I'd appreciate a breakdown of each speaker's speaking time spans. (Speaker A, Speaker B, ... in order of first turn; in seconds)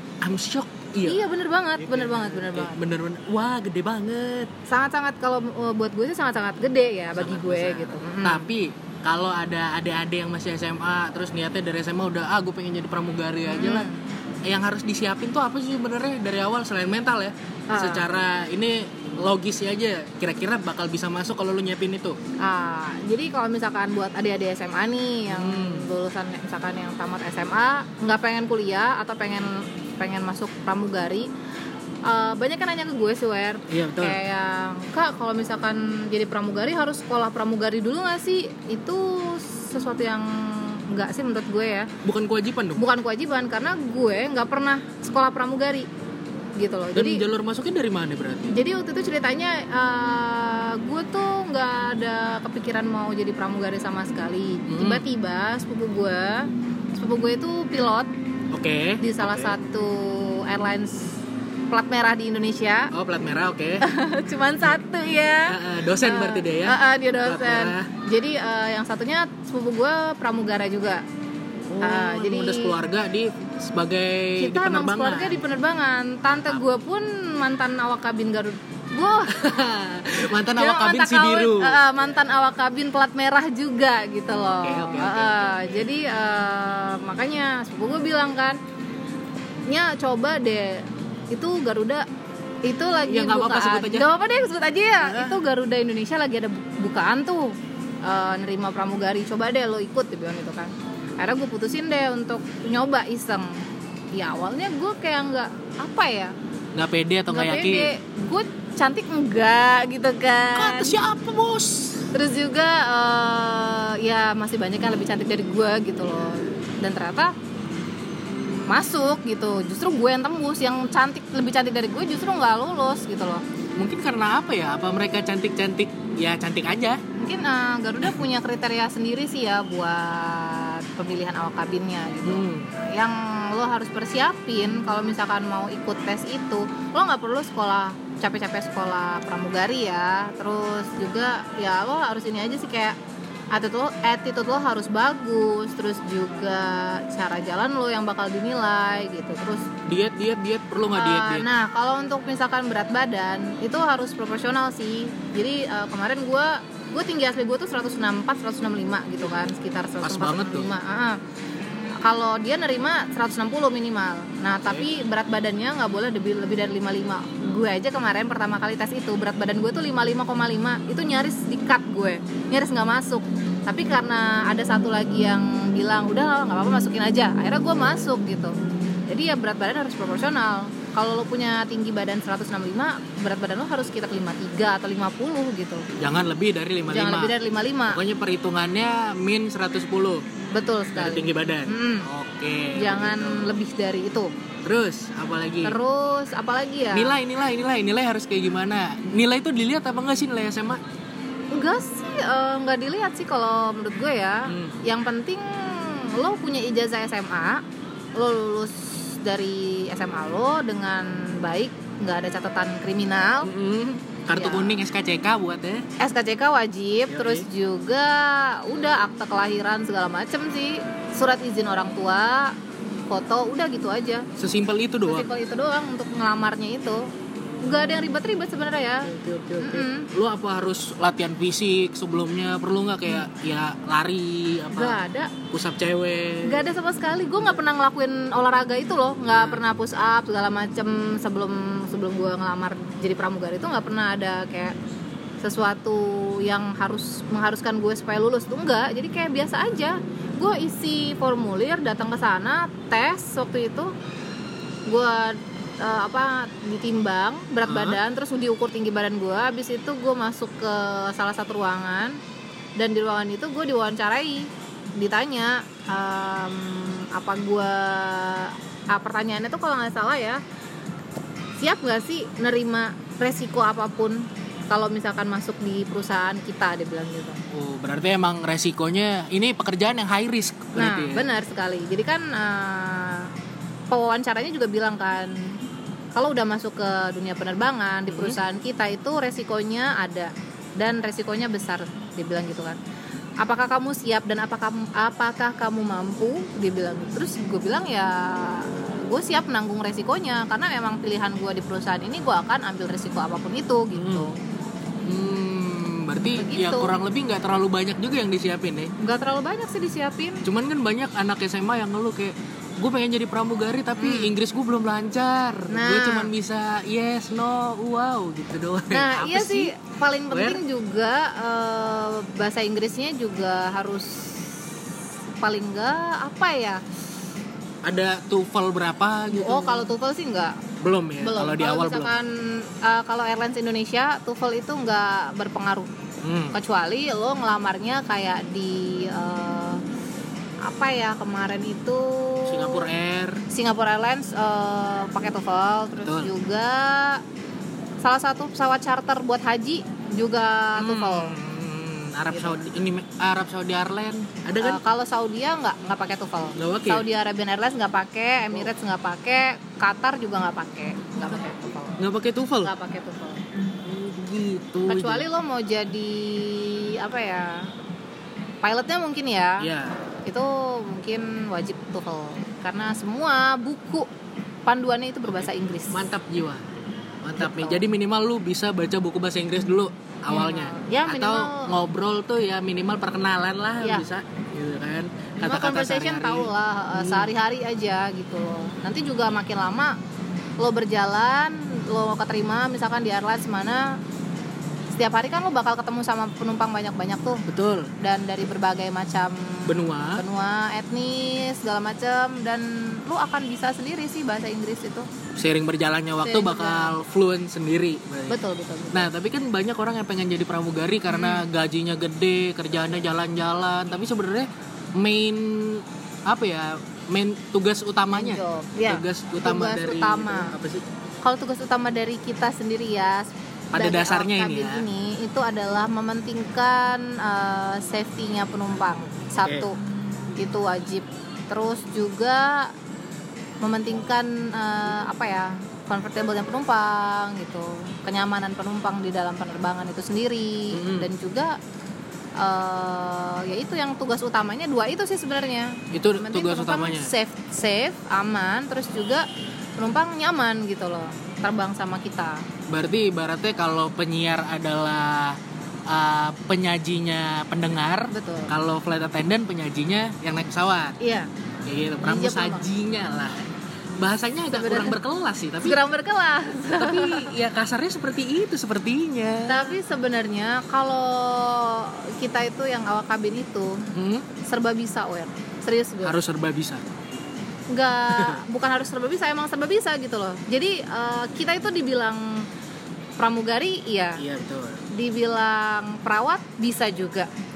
Speaker A: 0.2-1.2, 1.8-4.5, 7.2-13.9, 14.5-22.2, 25.3-25.9, 33.7-34.2, 42.0-42.8, 46.9-48.5, 54.7-55.0, 58.5-59.6, 62.9-63.9, 65.5-67.9, 71.7-75.5, 79.3-81.8, 84.4-85.8, 93.1-94.1, 95.0-95.4, 106.8-107.9, 110.5-112.1, 123.8-127.0, 132.2-132.7, 149.9-151.5, 160.0-160.7, 186.0-187.4, 187.9-190.2, 190.9-193.6, 194.6-195.8, 196.9-200.8, 204.5-204.8, 213.4-215.9, 217.1-217.5, 224.4-225.3, 229.0-235.0, 235.5-236.7, 239.3-239.6, 257.6-258.0, 277.5-281.3, 288.1-288.4, 303.9-304.3, 305.1-308.9, 310.4-319.7, 320.3-320.6, 327.8-329.9, 330.8-332.1, 336.2-336.6, 342.5-343.4, 346.0-346.3, 350.8-354.8, 356.6-357.1, 362.0-362.7, 363.8-365.3, 369.6-369.9, 375.3-376.6, 377.2-387.3, 397.5-397.9, 399.6-400.2, 405.4-408.4, 408.9-420.8, 423.7-424.9, 429.4-429.7, 440.7-441.1, 445.9-447.1, 452.7-461.0, 461.7-463.4, 464.0-465.8, 466.7-469.8, 473.9-474.2, 476.0-476.8, 478.1-478.4, 484.2-484.8
Speaker B: 1.0-2.8, 4.7-8.5, 13.5-14.0, 17.7-18.1, 22.4-31.3, 32.0-41.9, 42.8-45.9, 46.6-47.2, 48.5-58.1, 59.0-61.2, 61.7-62.9, 63.8-71.0, 71.8-72.8, 74.4-79.4, 80.6-88.6, 89.7-92.0, 92.6-103.6, 104.1-106.3, 107.3-111.0, 112.1-117.3, 118.7-123.4, 127.2-143.0, 143.5-149.7, 150.9-161.2, 162.0-178.6, 179.1-185.9, 186.9-188.0, 190.5-192.1, 192.8-194.3, 195.6-197.1, 201.5-207.6, 208.2-213.5, 214.3-214.8, 216.0-222.6, 223.1-224.3, 225.1-227.1, 227.6-230.1, 234.7-235.3, 236.4-244.8, 245.4-253.9, 254.9-262.2, 262.8-270.4, 271.6-277.4, 280.8-283.3, 283.9-285.6, 286.1-292.8, 293.4-304.4, 306.4-306.9, 309.0-310.4, 314.0-314.3, 315.7-316.3, 318.9-324.6, 325.4-326.8, 329.3-330.6, 331.2-335.9, 336.5-339.8, 340.6-342.9, 343.5-347.2, 348.0-351.4, 352.3-352.6, 354.6-362.0, 362.6-363.4, 364.9-367.7, 368.6-369.7, 370.2-374.1, 374.6-376.1, 377.4-377.8, 380.3-381.7, 385.4-390.0, 390.6-394.0, 394.9-397.4, 398.0-405.1, 406.2-406.9, 408.3-409.1, 411.1-411.4, 418.1-420.5, 421.2-429.8, 430.4-432.7, 433.6-441.6, 442.4-449.2, 449.8-452.4, 458.1-458.5, 461.0-461.3, 462.0-462.7, 464.5-465.0, 465.6-467.3, 469.5-473.9, 474.4-476.2, 477.7-482.5, 483.2-484.2, 484.9-487.3